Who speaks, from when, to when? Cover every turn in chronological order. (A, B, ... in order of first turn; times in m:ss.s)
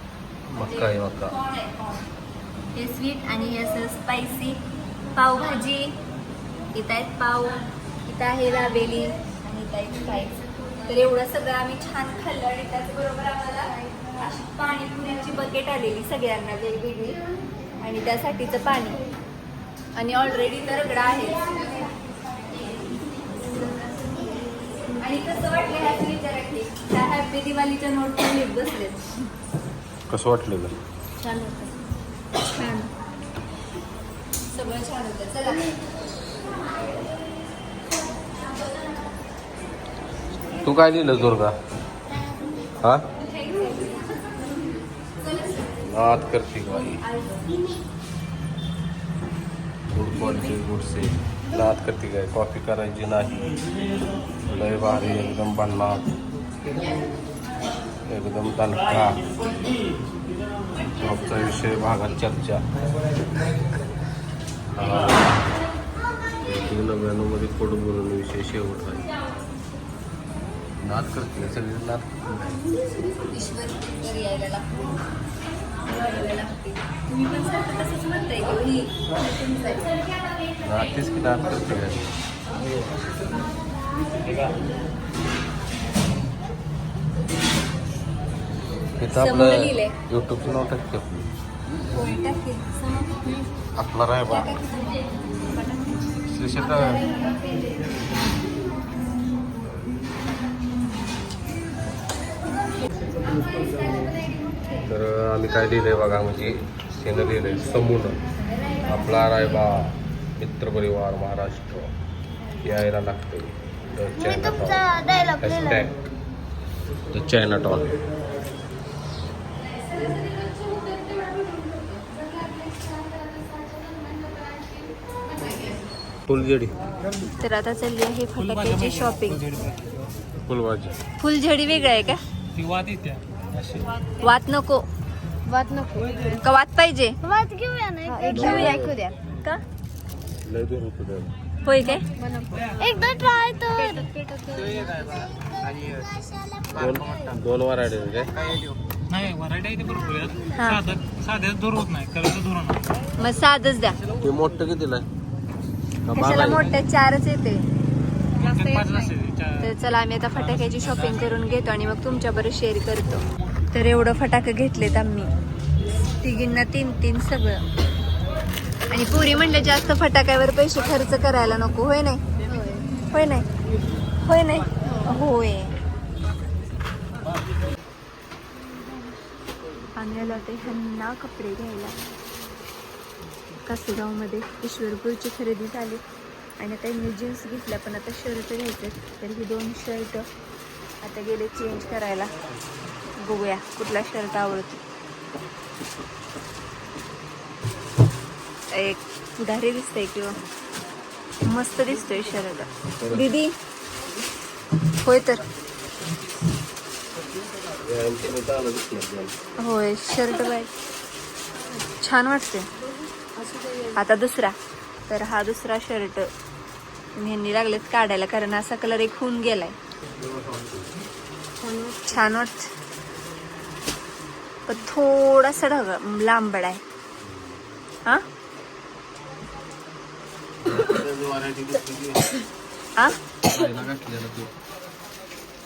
0:00.5-0:01.4 A
0:00.6-0:02.1 B
0:02.7-0:04.6 B
0:05.2-0:06.0 B
0:06.7-0:17.2 B
0:17.8-0:19.0 B
0:20.0-0:21.6 B
0:23.2-0:24.3 B
0:25.0-0:29.1 B
0:30.1-0:30.8 A
0:31.2-0:31.7 B
0:32.5-0:32.9 B
0:34.5-0:35.7 B
0:40.6-0:41.5 A
0:43.4-0:44.0 B
0:45.8-0:47.0 A
0:47.1-0:47.5 B
0:49.9-0:53.6 A
0:54.5-0:56.2 A
0:58.1-0:59.2 A
1:01.0-1:02.6 A
1:04.8-1:05.5 A
1:06.4-1:09.1 A
1:10.8-1:12.6 A
1:13.3-1:14.9 B
1:15.9-1:19.9 B
1:20.6-1:22.1 A
1:29.0-1:31.3 A
1:29.1-1:30.0 B
1:31.8-1:33.3 B
1:33.8-1:34.5 A
1:34.3-1:37.7 B
1:36.3-1:37.1 A
1:44.9-1:48.2 A
1:48.5-1:48.9 B
1:48.8-1:51.9 A
1:52.6-1:54.8 A
1:54.2-1:55.9 C
1:55.4-1:56.0 A
1:57.1-1:58.0 A
2:06.3-2:06.8 A
2:07.4-2:09.5 B
2:09.5-2:09.7 D
2:10.4-2:11.0 A
2:11.2-2:12.2 B
2:12.6-2:13.9 D
2:14.2-2:14.9 B
2:16.2-2:17.2 B
2:17.2-2:19.1 C
2:18.1-2:19.6 B
2:18.3-2:19.0 A
2:20.5-2:21.3 A
2:21.6-2:22.1 B
2:22.8-2:24.1 C
2:24.9-2:26.8 C
2:26.7-2:28.6 A
2:29.1-2:32.8 D
2:30.5-2:30.9 B
2:33.2-2:34.0 B
2:34.2-2:35.1 A
2:36.0-2:36.7 A
2:36.2-2:37.7 B
2:38.4-2:45.3 B
2:38.6-2:39.6 D
2:46.2-2:47.6 B
2:48.9-2:53.5 B
2:54.2-2:55.8 B
3:00.0-3:02.0 B
3:03.6-3:06.0 B
3:06.6-3:10.3 B
3:11.0-3:12.3 B
3:13.2-3:14.8 B
3:18.7-3:20.4 B
3:21.5-3:23.6 B
3:23.0-3:23.3 A
3:25.0-3:25.4 B
3:27.8-3:29.3 A
3:29.6-3:30.7 B
3:32.0-3:32.7 B
3:34.0-3:34.6 B
3:35.1-3:36.3 B
3:37.2-3:39.8 B
3:40.2-3:40.9 A
3:41.8-3:42.7 B
3:44.7-3:46.8 B
3:47.2-3:47.6 A
3:50.6-3:52.4 A
3:53.5-3:54.5 A